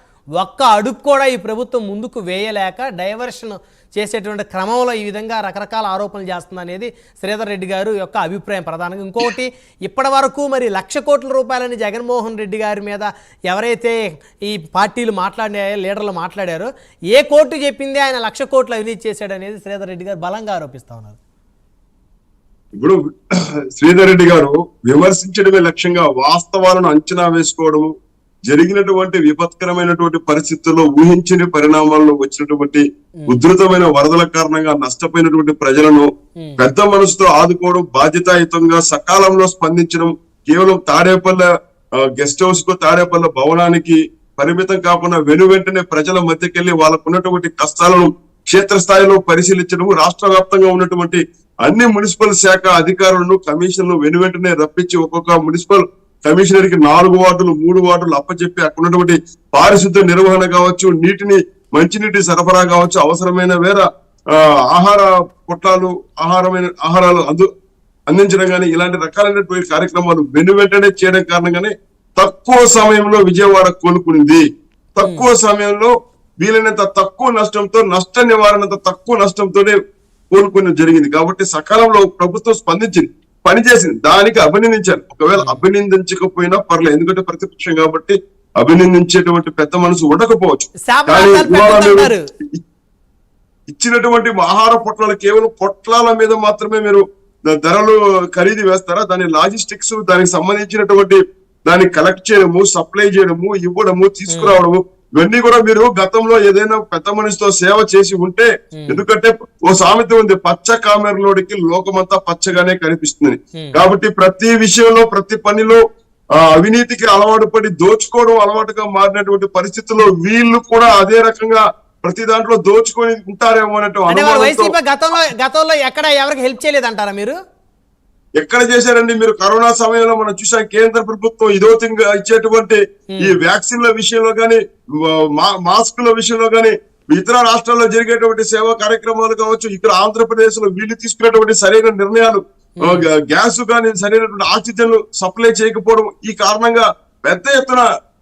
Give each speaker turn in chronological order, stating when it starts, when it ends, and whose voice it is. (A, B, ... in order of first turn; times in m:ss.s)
0:00.4-0:21.2 A
0:23.7-0:27.9 B
0:28.5-0:41.5 B
0:42.0-1:07.5 B
1:08.1-1:14.4 B
1:15.0-1:19.8 B
1:15.0-1:15.3 A
1:20.3-1:32.6 B
1:30.9-1:32.2 A
1:33.7-1:55.8 B
1:44.3-1:44.6 A
1:48.8-1:49.0 A
1:56.4-2:04.7 B
2:04.1-2:07.3 A
2:08.4-2:27.8 B
2:22.8-2:23.0 A